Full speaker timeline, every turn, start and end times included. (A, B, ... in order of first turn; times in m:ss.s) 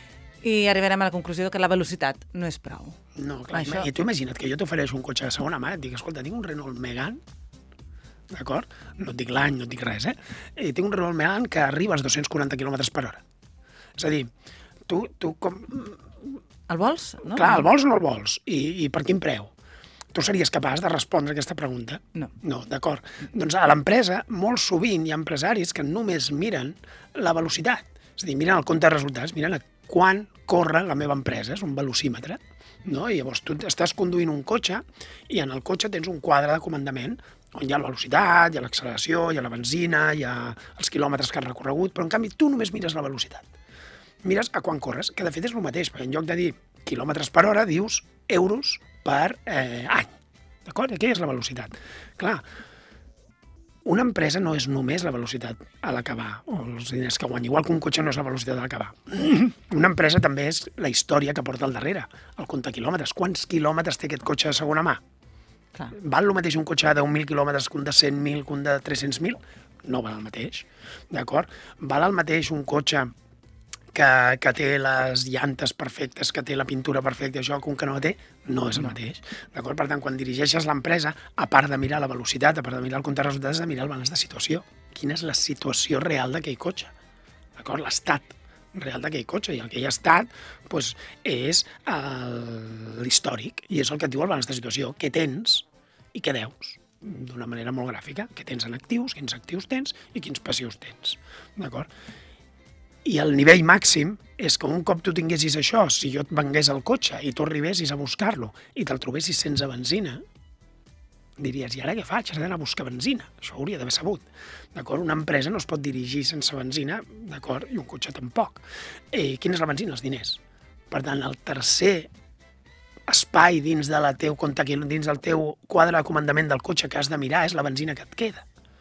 0:00.4-0:03.0 A
0:03.2-0:07.2 B
0:03.5-0:03.9 A
0:08.3-0:13.2 B
0:14.0-0:14.3 B
0:14.9-0:16.2 B
0:16.7-0:17.7 A
0:17.3-0:19.5 B
0:20.1-0:43.5 B
0:44.2-0:50.1 B
0:50.6-0:52.4 B
0:53.8-1:05.0 B
1:05.9-1:13.1 B
1:13.9-1:26.9 B
1:27.6-1:41.9 B
1:43.0-1:50.2 B
1:51.4-2:02.1 B
2:03.1-2:08.4 B